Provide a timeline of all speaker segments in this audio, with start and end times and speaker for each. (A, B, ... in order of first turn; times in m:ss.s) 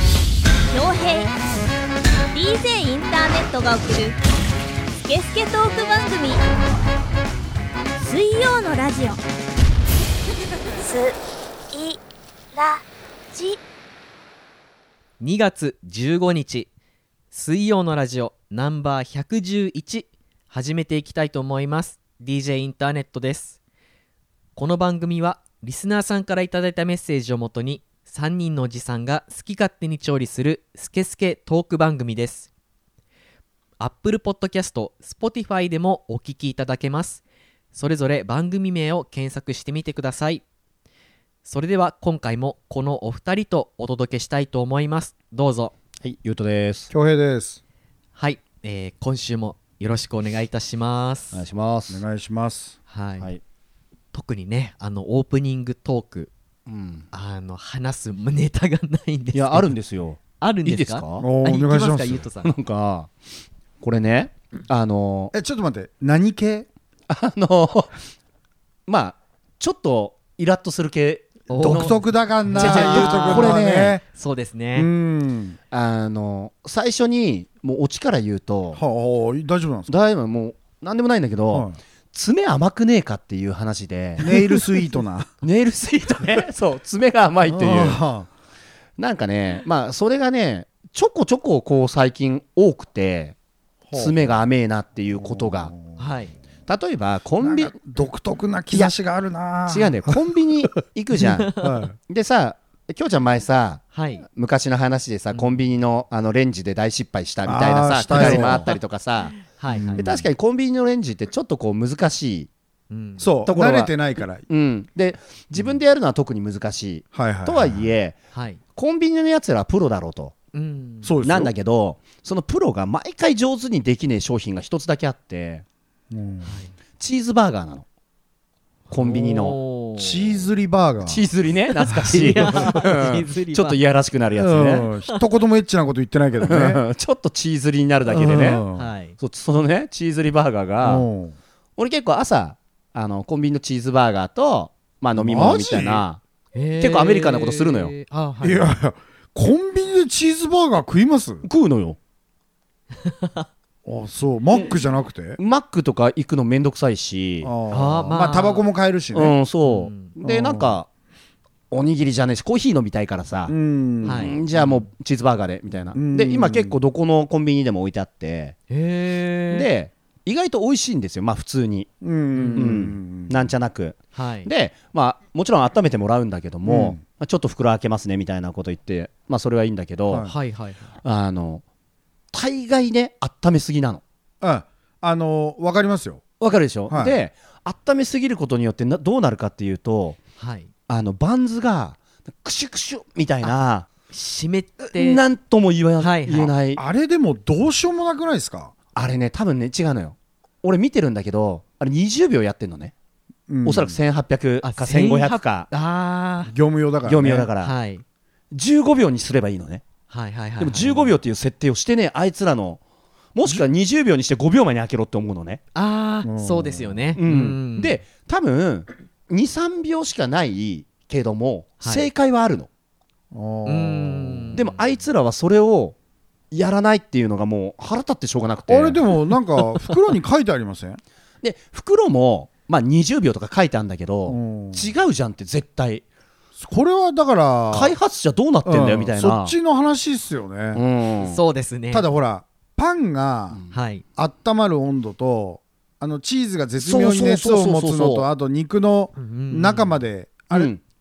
0:00.7-0:01.3 A
0:02.3-0:04.2 A
0:05.0-0:06.4 A
0:08.0-0:09.2 A
0:10.8-0:11.1 A
0:11.7-0:12.0 A
0:12.5-0:12.8 A
0:15.2-0:16.7 B
0:17.3-0:23.6 B
0:24.5-0:32.5 B
0:33.8-0:40.4 B
0:41.4-0:45.7 B
0:46.0-0:46.9 C
0:46.9-0:47.6 D
0:48.1-0:51.4 B
0:51.3-0:52.0 C
0:51.9-0:52.8 D
0:52.9-0:53.3 B
0:54.1-0:56.3 B
0:56.7-0:57.1 C
0:57.1-0:59.7 B
0:59.3-1:01.3 C
1:00.4-1:02.5 B
1:01.2-1:02.3 D
1:02.4-1:03.1 C
1:03.8-1:05.3 C
1:05.3-1:06.7 D
1:07.1-1:08.0 C
1:08.9-1:12.0 C
1:11.5-1:13.6 B
1:11.6-1:14.0 D
1:12.5-1:14.0 C
1:14.1-1:14.9 B
1:14.7-1:15.6 D
1:15.7-1:18.8 C
1:18.7-1:19.9 D
1:19.9-1:24.6 C
1:21.5-1:21.8 D
1:24.2-1:25.3 D
1:25.4-1:28.0 C
1:27.5-1:28.3 D
1:29.0-1:33.4 C
1:33.9-1:34.2 D
1:33.9-1:35.7 C
1:35.1-1:36.0 D
1:36.0-1:36.3 B
1:36.7-1:37.8 C
1:37.4-1:40.6 D
1:39.6-1:52.5 C
1:41.6-1:41.9 D
1:43.9-1:44.2 B
1:45.3-1:45.6 B
1:47.4-1:48.7 D
1:48.1-1:48.8 B
1:49.4-1:50.1 B
1:49.7-1:50.3 D
1:52.9-1:53.3 B
1:53.2-1:54.5 D
1:53.4-1:58.2 C
1:57.1-1:57.9 D
1:58.3-1:58.6 B
1:58.7-2:00.3 C
2:00.5-2:01.1 B
2:01.0-2:01.5 D
2:01.2-2:05.6 C
2:06.1-2:06.5 D
2:06.4-2:06.7 B
2:07.0-2:07.8 C
2:08.9-2:09.6 C
2:08.9-2:10.4 B
2:10.0-2:11.2 D
2:11.0-2:14.9 C
2:11.7-2:13.8 B
2:12.1-2:12.6 D
2:14.3-2:16.8 D
2:16.4-2:18.6 C
2:18.1-2:18.9 D
2:18.7-2:19.2 B
2:19.2-2:21.1 C
2:20.8-2:21.4 D
2:21.8-2:26.2 C
2:25.2-2:26.0 D
2:26.5-2:28.7 B
2:26.8-2:27.9 C
2:28.4-2:31.4 D
2:31.4-2:32.0 C
2:33.0-2:33.4 B
2:33.8-2:35.4 D
2:35.4-2:37.5 C
2:37.4-2:39.4 D
2:37.7-2:38.7 B
2:39.1-2:40.9 C
2:39.6-2:40.1 B
2:40.2-2:40.8 D
2:41.7-2:48.6 C
2:43.5-2:44.8 D
2:44.0-2:44.4 B
2:45.9-2:46.7 D
2:48.7-2:49.7 B
2:49.5-2:51.9 C
2:52.0-2:53.5 D
2:52.5-3:00.3 C
2:54.1-2:54.5 B
2:56.6-2:57.0 D
3:00.1-3:00.3 D
3:00.2-3:00.9 B
3:01.0-3:01.6 C
3:02.3-3:04.0 C
3:04.4-3:06.2 D
3:06.4-3:10.2 C
3:06.9-3:07.2 D
3:10.4-3:10.7 B
3:10.9-3:13.9 C
3:14.1-3:15.2 B
3:14.9-3:16.8 C
3:16.0-3:16.5 B
3:16.7-3:18.7 D
3:18.9-3:22.9 C
3:23.5-3:24.0 D
3:23.6-3:25.7 C
3:24.6-3:26.5 B
3:26.5-3:27.5 D
3:27.0-3:27.7 C
3:27.6-3:28.0 B
3:28.5-3:29.8 C
3:30.1-3:31.1 B
3:30.6-3:32.8 C
3:33.3-3:35.6 C
3:35.7-3:38.0 B
3:36.2-3:37.0 D
3:37.2-3:42.7 C
3:41.8-3:42.1 B
3:43.3-3:44.5 D
3:43.6-3:44.7 B
3:44.5-3:46.0 C
3:46.5-3:49.2 C
3:48.7-3:51.0 D
3:51.4-3:56.0 C
3:54.3-3:54.9 D
3:56.6-3:57.9 D
3:57.7-3:59.5 C
3:58.6-4:00.8 D
4:00.7-4:01.4 C
4:01.2-4:02.1 B
4:01.9-4:03.6 D
4:03.7-4:04.0 B
4:04.2-4:10.7 D
4:06.8-4:08.3 C
4:09.2-4:10.0 B
4:10.5-4:10.8 C